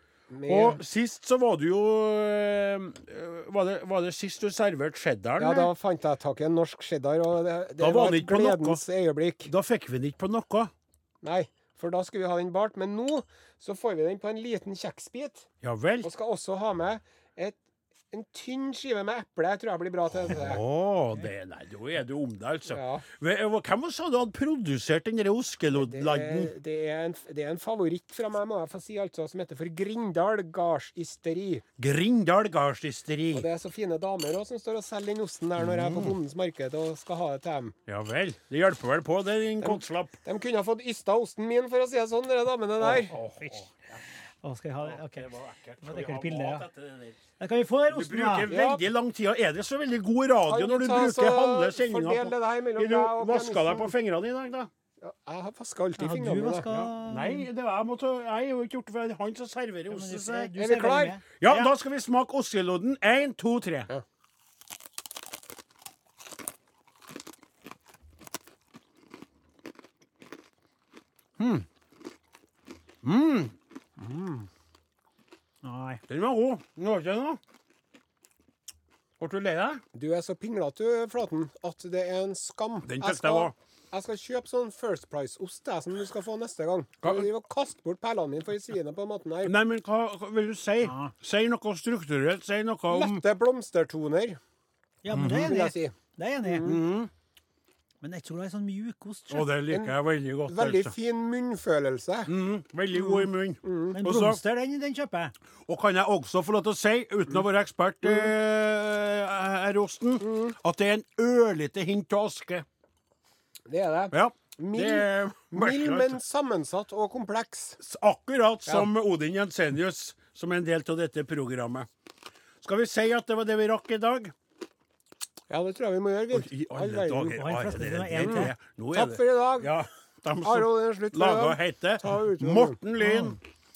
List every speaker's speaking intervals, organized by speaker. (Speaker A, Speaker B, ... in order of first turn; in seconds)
Speaker A: 0.3-0.8, 5.4-9.5, 11.2-15.5, 16.0-17.6, 18.1-20.6, 22.7-23.0, 25.7-31.6, 33.3-37.7, 39.6-43.1, 48.5-48.8, 50.5-53.9, 55.0-56.6, 60.5-61.1, 74.0-74.5, 79.9-89.5, 92.9-94.4, 95.4-96.8, 99.7-100.0, 100.5-102.3, 102.9-104.0, 110.2-110.5, 113.7-117.8, 125.5-127.4, 128.2-129.7, 130.4-132.8
Speaker B: 0.5-5.7, 7.8-8.8, 9.4-10.7, 15.6-16.1, 20.2-26.5, 31.8-33.5, 35.6-36.1, 37.9-40.2, 42.8-44.0, 44.8-47.2, 47.9-54.7, 56.7-60.5, 61.4-63.9, 71.4-71.7, 73.0-73.5, 76.1-77.4, 79.2-79.8, 82.8-83.5, 87.0-87.3, 89.4-93.2, 95.1-95.5, 96.6-97.1, 99.3-100.9, 102.2-104.4, 105.7-112.7, 114.1-116.2, 117.8-121.9, 122.6-124.3, 126.3-133.4
Speaker C: 43.3-43.7, 44.4-45.3, 45.8-46.6, 47.4-48.5, 56.0-57.5, 59.9-61.7, 75.6-76.0, 90.8-91.1, 95.0-96.7, 98.0-99.5, 103.9-105.3, 127.4-128.5, 133.1-133.3